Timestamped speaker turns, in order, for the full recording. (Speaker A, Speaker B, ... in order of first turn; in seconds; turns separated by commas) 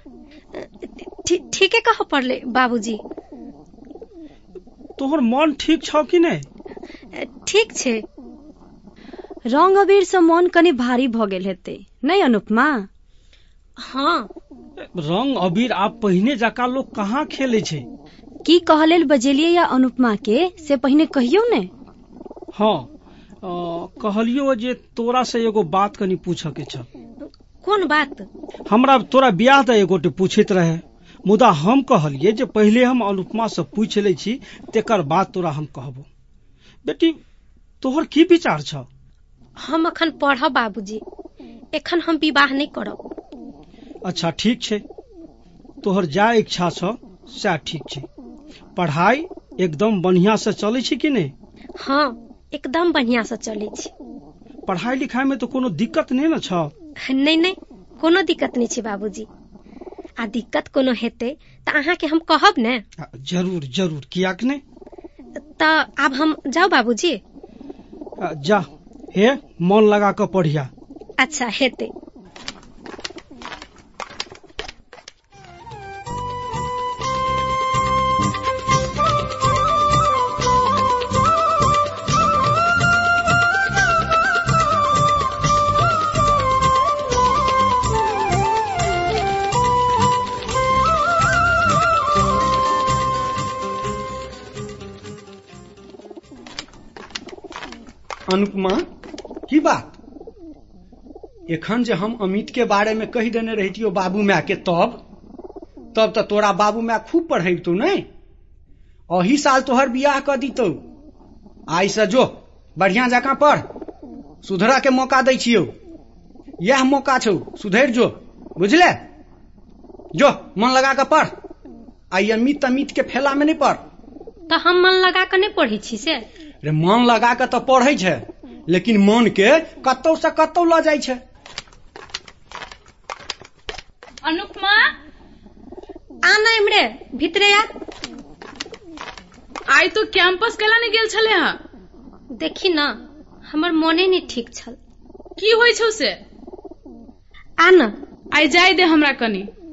Speaker A: 0.6-3.0, Speaker B: 5.0-6.4, Speaker A: 7.1-8.0, Speaker C: 9.5-12.8, Speaker A: 13.8-14.3, Speaker B: 14.9-17.8, Speaker C: 18.4-21.7, Speaker B: 22.5-22.9, Speaker B: 23.4-26.9, Speaker A: 27.2-28.3, Speaker B: 28.7-36.0, Speaker B: 36.8-37.2, Speaker B: 37.8-38.9, Speaker A: 39.6-41.0, Speaker A: 41.7-43.0, Speaker B: 44.0-44.8, Speaker B: 45.8-48.0, Speaker B: 48.8-51.3, Speaker A: 51.8-53.9, Speaker B: 54.7-56.7, Speaker A: 57.0-59.3, Speaker A: 60.2-62.8, Speaker B: 63.0-64.6, Speaker A: 65.6-67.2, Speaker B: 68.2-70.7, Speaker A: 71.2-71.9, Speaker D: 98.3-98.8, Speaker D: 99.5-99.9, Speaker D: 101.5-105.0, Speaker D: 105.9-108.0, Speaker D: 109.1-110.8, Speaker D: 111.7-113.6, Speaker D: 114.4-115.7, Speaker D: 116.6-119.0, Speaker D: 120.1-121.3, Speaker D: 122.1-123.8, Speaker A: 124.5-126.2, Speaker D: 126.6-131.2, Speaker E: 134.2-134.9, Speaker A: 136.2-137.7, Speaker E: 139.7-141.6, Speaker A: 142.3-144.8, Speaker E: 145.4-146.2, Speaker A: 147.6-147.9, Speaker E: 148.3-149.5